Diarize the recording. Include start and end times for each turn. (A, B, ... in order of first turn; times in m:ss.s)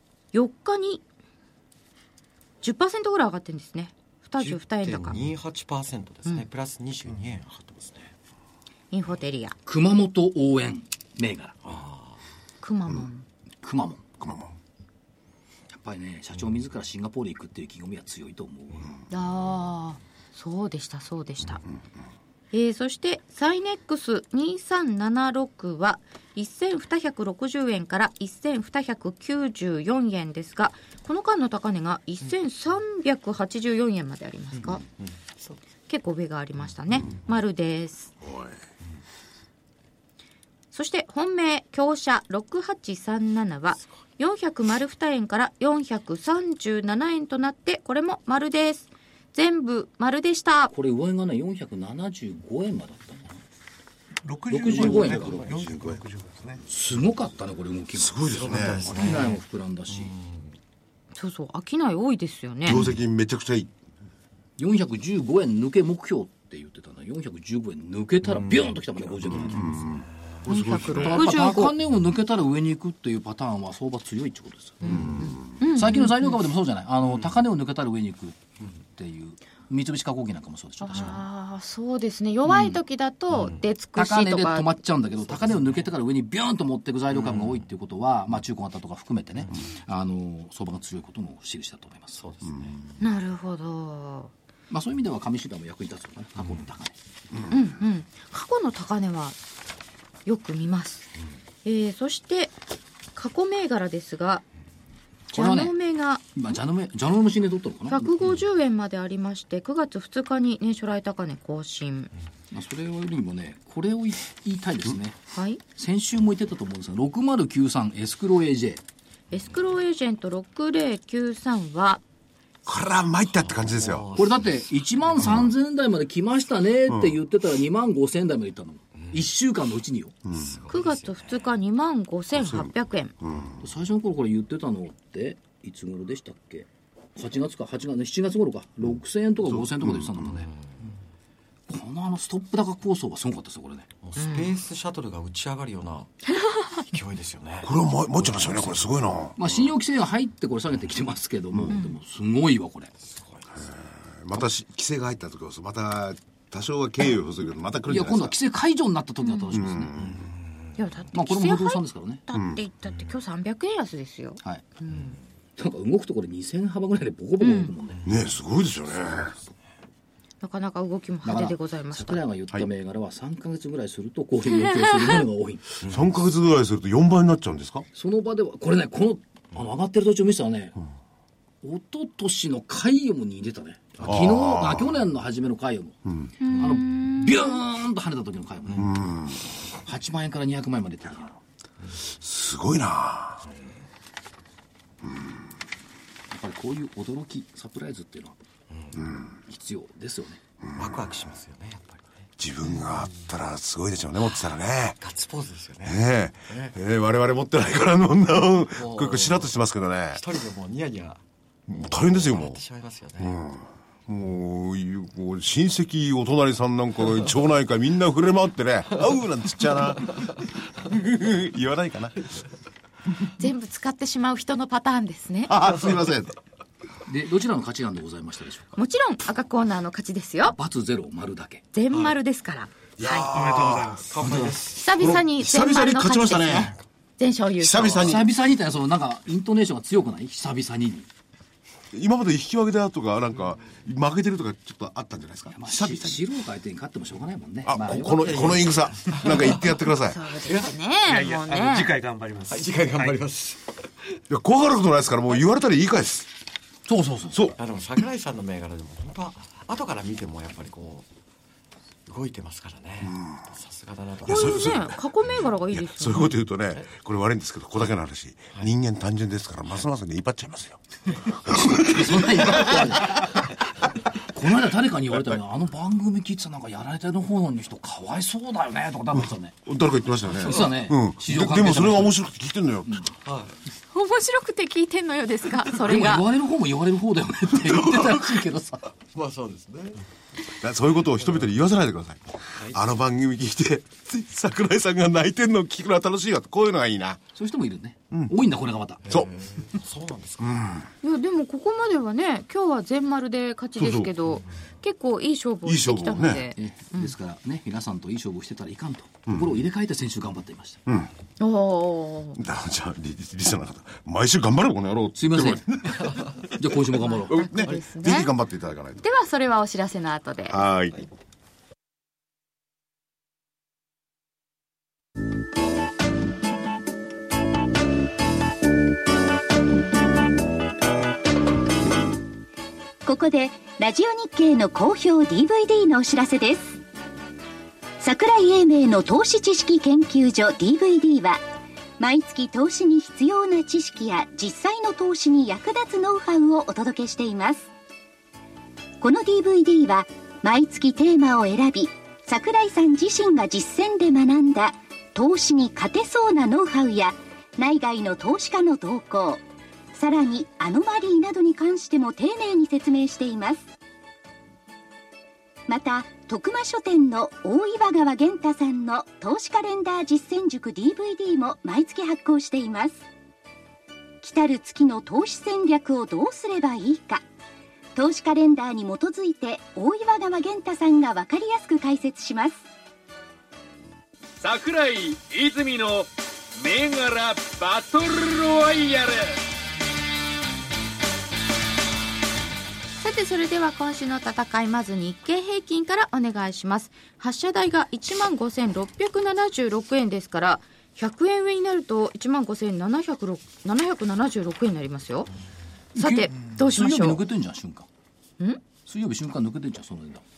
0:00.3-0:01.0 A
0:02.6-0:05.2 A
0:04.4-0:08.1 B
0:08.9-0:09.6 A
0:09.6-0:11.6 C
0:11.6-0:12.2 B
0:12.6-0:13.2 A
0:13.6-0:14.0 C
0:14.2-0:14.5 D
0:15.7-0:18.9 C
0:19.1-0:21.6 A
0:22.5-0:34.8 A
0:34.6-0:35.6 B
0:35.9-0:38.1 A
0:38.2-0:38.6 D
0:40.7-0:50.7 A
0:50.7-0:53.4 C
0:54.2-0:56.6 E
0:54.5-0:55.5 C
0:54.6-0:56.0 D
0:56.6-1:00.1 C
0:57.9-0:59.2 D
0:58.3-1:00.5 B
1:01.2-1:02.8 A
1:02.6-1:03.7 D
1:04.6-1:10.0 C
1:08.3-1:08.7 B
1:09.3-1:11.4 D
1:10.5-1:11.7 A
1:11.0-1:18.4 C
1:14.8-1:16.4 A
1:14.9-1:15.5 D
1:18.9-1:21.2 C
1:20.8-1:24.7 A
1:22.5-1:22.7 C
1:23.3-1:23.6 B
1:23.9-1:32.2 C
1:25.6-1:25.8 B
1:27.1-1:27.6 B
1:32.2-1:32.8 B
1:32.4-1:32.7 D
1:33.0-1:34.3 A
1:34.7-1:36.9 C
1:37.5-1:39.4 A
1:40.2-1:41.1 A
1:41.6-1:42.5 A
1:43.1-1:44.4 A
1:45.3-1:45.7 C
1:45.3-1:46.3 A
1:46.3-1:48.1 C
1:47.9-1:52.1 A
1:52.5-1:55.2 C
1:55.3-1:55.6 A
1:55.7-1:58.8 C
1:59.3-2:02.0 A
2:02.6-2:04.1 D
2:03.5-2:05.4 B
2:04.1-2:10.1 C
2:05.2-2:05.5 D
2:06.9-2:07.2 D
2:10.2-2:10.6 D
2:10.3-2:11.4 B
2:10.7-2:13.1 A
2:12.3-2:13.6 D
2:13.6-2:20.5 C
2:19.4-2:20.4 D
2:21.7-2:23.9 C
2:24.0-2:26.1 B
2:24.2-2:24.5 A
2:26.4-2:26.7 A
2:26.8-2:28.9 B
2:27.6-2:29.6 D
2:29.4-2:32.9 C
2:31.7-2:32.0 A
2:33.1-2:33.5 B
2:33.5-2:38.4 D
2:37.9-2:39.9 C
2:39.2-2:39.6 A
2:39.5-2:40.3 D
2:40.0-2:40.4 B
2:40.8-2:45.2 A
2:41.1-2:42.2 C
2:42.3-2:42.6 D
2:45.6-2:48.0 C
2:47.4-2:47.7 A
2:48.0-2:49.3 D
2:50.4-2:52.2 A
2:51.2-2:55.6 C
2:55.8-2:57.8 D
2:57.9-3:00.8 C
3:01.6-3:06.0 C
3:04.0-3:05.0 D
3:06.4-3:07.6 A
3:06.5-3:09.0 C
3:08.7-3:09.4 D
3:09.8-3:11.4 C
3:12.0-3:13.4 D
3:16.3-3:18.4 C
3:18.7-3:19.0 B
3:19.5-3:20.4 C
3:20.6-3:21.1 D
3:20.8-3:22.1 B
3:22.4-3:25.0 D
3:24.2-3:24.5 B
3:25.0-3:26.7 B
3:25.8-3:30.2 D
3:28.8-3:29.5 B
3:30.1-3:33.4 B
3:31.7-3:32.6 D
3:33.2-3:42.2 D
3:43.4-3:45.5 A
3:45.5-3:46.4 D
3:47.0-3:48.7 C
3:48.8-3:50.6 A
3:50.5-3:51.6 C
3:51.7-3:53.3 A
3:53.0-3:56.7 D
3:53.3-3:54.2 E
3:54.1-3:54.7 B
3:54.2-3:54.6 C
3:54.7-3:58.1 A
3:57.6-3:58.3 D
3:58.0-4:01.1 C
4:01.9-4:06.2 D
4:05.5-4:08.5 C
4:07.6-4:10.2 D
4:08.2-4:09.7 B
4:10.0-4:12.0 A
4:11.0-4:13.2 E
4:12.5-4:13.7 B
4:14.3-4:16.3 D
4:16.9-4:17.4 C
4:17.3-4:17.6 D
4:17.6-4:21.0 B
4:22.1-4:24.8 B
4:23.0-4:23.4 D
4:24.2-4:25.0 D
4:24.2-4:26.4 A
4:25.7-4:32.8 D
4:31.7-4:33.5 C
4:34.2-4:39.6 C
4:35.1-4:35.4 D
4:39.2-4:43.1 D
4:40.3-4:42.1 C
4:43.2-4:43.5 B
4:43.9-4:46.3 A
4:45.7-4:48.9 C
4:49.1-4:50.0 B
4:50.6-4:57.2 D
4:57.3-4:59.0 C
4:59.0-5:00.6 B
5:00.4-5:00.9 D
5:01.0-5:07.1 A
5:03.8-5:04.1 D
5:05.6-5:06.5 D
5:06.6-5:10.8 C
5:09.3-5:09.6 D
5:10.8-5:11.1 D
5:11.4-5:12.4 A
5:12.3-5:16.7 D
5:15.2-5:17.4 C
5:17.0-5:18.3 A
5:17.3-5:19.0 D
5:19.0-5:20.6 A
5:20.5-5:21.0 D
5:33.0-5:36.8 F
5:38.0-5:41.4 F
5:42.0-5:47.7 F
5:49.0-6:03.7 F
6:05.7-6:13.0 F
6:14.2-6:17.2 F
6:17.9-6:22.6 F
6:24.4-6:29.4 G
6:33.0-6:45.3 A
6:45.9-6:47.9 C
6:46.0-6:47.2 A
6:48.8-6:50.2 C